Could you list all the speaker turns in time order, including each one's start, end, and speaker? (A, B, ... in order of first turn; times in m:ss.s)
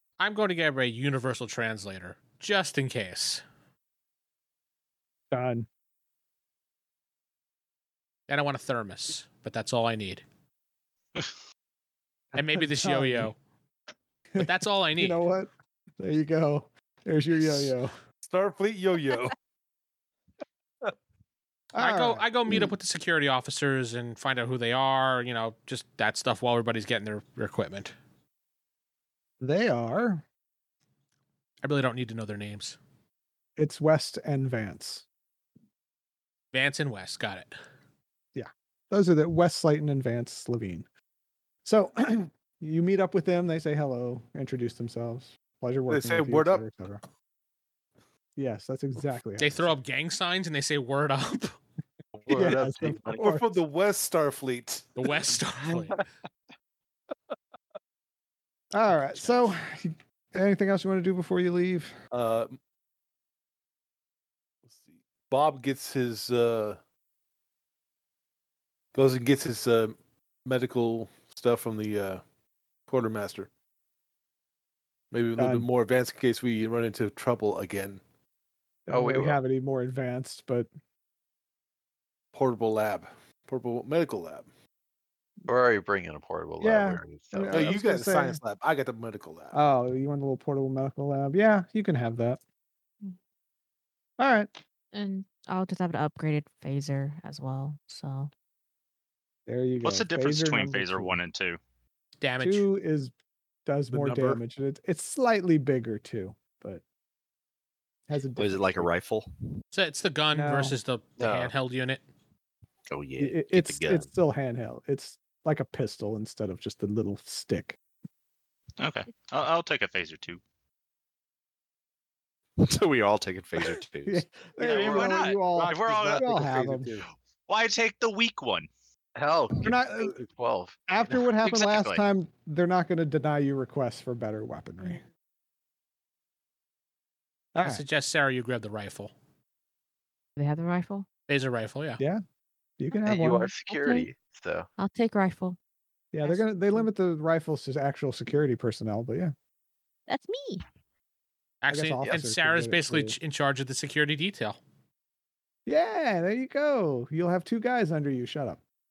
0:00.2-0:03.4 A
0:05.3-0:05.7 B
0:08.3-0:10.2 A
0:12.3-0:13.4 A
0:12.4-0:13.3 B
0:14.3-0:17.9 B
0:14.4-0:15.2 A
0:18.2-0:19.3 C
0:21.7-0:22.7 B
0:21.8-0:27.9 A
0:29.4-0:30.2 B
0:31.6-0:32.8 A
0:33.6-0:35.0 B
0:36.5-0:37.5 A
0:38.3-0:40.8 B
0:41.6-0:47.0 B
0:45.9-0:46.7 C
0:48.4-0:49.8 B
0:49.4-0:51.6 A
0:52.1-0:53.2 D
0:52.3-0:53.4 B
0:52.3-0:55.0 C
0:55.0-0:56.0 A
0:58.7-1:02.0 B
1:02.1-1:02.6 C
1:05.3-1:06.8 C
1:08.9-1:09.9 C
1:10.4-1:12.2 C
1:12.9-1:13.5 C
1:15.1-1:18.0 C
1:15.4-1:15.7 B
1:18.9-1:20.7 B
1:18.9-1:19.4 D
1:22.3-1:24.4 C
1:25.4-1:27.8 D
1:26.6-1:28.4 B
1:27.5-1:29.6 C
1:29.5-1:32.4 B
1:34.2-1:34.5 B
1:34.9-1:38.3 E
1:39.4-1:41.2 B
1:39.8-1:41.6 F
1:42.2-1:42.7 A
1:42.4-1:43.1 B
1:43.6-1:46.8 B
1:43.9-1:44.4 C
1:48.1-1:48.9 B
1:48.4-1:49.3 G
1:49.7-1:52.0 A
1:50.3-1:50.8 B
1:51.2-1:51.5 D
1:52.9-1:53.9 D
1:53.0-1:54.0 G
1:53.2-1:57.8 B
1:58.8-2:00.4 F
2:02.6-2:04.2 G
2:04.0-2:06.9 B
2:04.6-2:06.3 F
2:04.6-2:07.0 C
2:07.5-2:08.7 F
2:09.2-2:10.8 D
2:09.6-2:10.2 B
2:10.9-2:15.0 B
2:11.4-2:12.0 F
2:17.5-2:17.8 B
2:17.6-2:19.1 A
2:20.4-2:21.1 E
2:21.3-2:22.0 A
2:22.8-2:23.5 B
2:23.0-2:24.7 D
2:23.7-2:24.1 E
2:24.8-2:25.6 E
2:26.1-2:29.3 B
2:26.2-2:26.9 E
2:30.1-2:30.6 E
2:31.6-2:34.6 A
2:31.7-2:33.2 B
2:35.6-2:38.6 B